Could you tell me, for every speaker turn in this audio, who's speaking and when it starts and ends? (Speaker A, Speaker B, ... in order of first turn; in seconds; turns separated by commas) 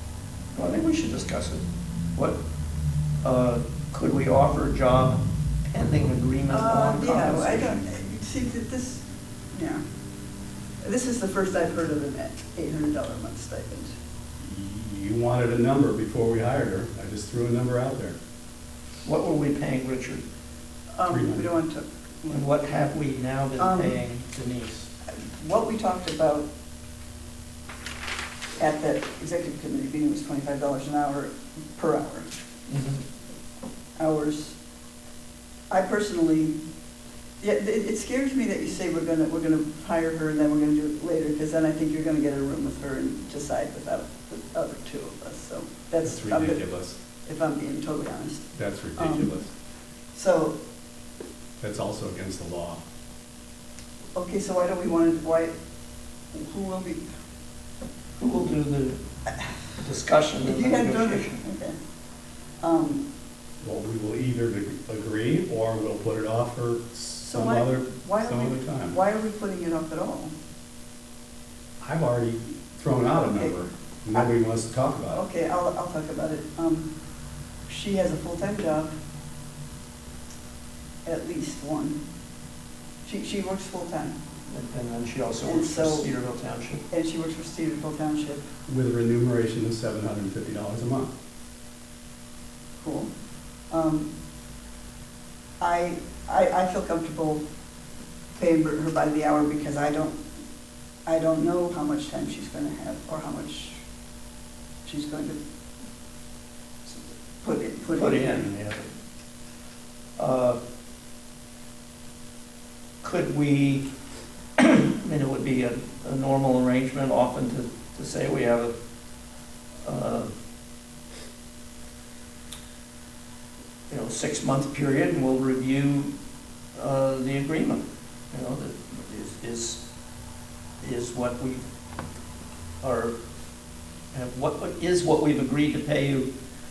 Speaker A: 0.5-1.6, Speaker A: 3.2-7.8, Speaker B: 6.5-9.8, Speaker B: 10.8-13.9, Speaker C: 14.4-18.2, Speaker A: 19.0-20.2, Speaker B: 20.9-22.6, Speaker C: 21.1-21.5, Speaker A: 22.3-24.9, Speaker B: 23.6-23.9, Speaker B: 25.1-26.5, Speaker B: 28.6-32.3, Speaker A: 32.7-33.0, Speaker B: 34.0-34.6, Speaker B: 35.7-36.6, Speaker B: 37.4-46.6, Speaker C: 46.0-47.0, Speaker B: 47.2-49.3, Speaker C: 48.5-49.5, Speaker B: 50.1-50.5, Speaker C: 51.6-52.8, Speaker B: 54.1-55.5, Speaker B: 56.3-57.0, Speaker A: 58.2-59.0, Speaker A: 59.8-61.4, Speaker B: 60.4-61.8, Speaker B: 62.6-63.0, Speaker C: 63.6-69.0, Speaker B: 67.2-70.3, Speaker C: 71.8-75.2, Speaker B: 73.2-73.5, Speaker B: 75.1-76.9, Speaker B: 77.7-78.9, Speaker B: 81.0-82.0, Speaker B: 83.0-84.2, Speaker A: 84.5-86.8, Speaker B: 85.4-86.1, Speaker B: 86.9-88.4, Speaker C: 88.7-91.1, Speaker B: 92.8-93.1, Speaker B: 93.7-94.1, Speaker B: 95.6-97.4, Speaker B: 98.4-100.2, Speaker B: 101.0-103.8, Speaker B: 104.8-105.4, Speaker B: 107.4-108.5, Speaker A: 107.9-108.9, Speaker A: 110.2-110.6, Speaker A: 113.0-113.8, Speaker A: 114.6-118.7, Speaker A: 119.8-120.3, Speaker A: 123.9-126.1, Speaker A: 126.7-129.8, Speaker A: 130.8-131.6, Speaker A: 132.8-133.1, Speaker A: 134.1-136.3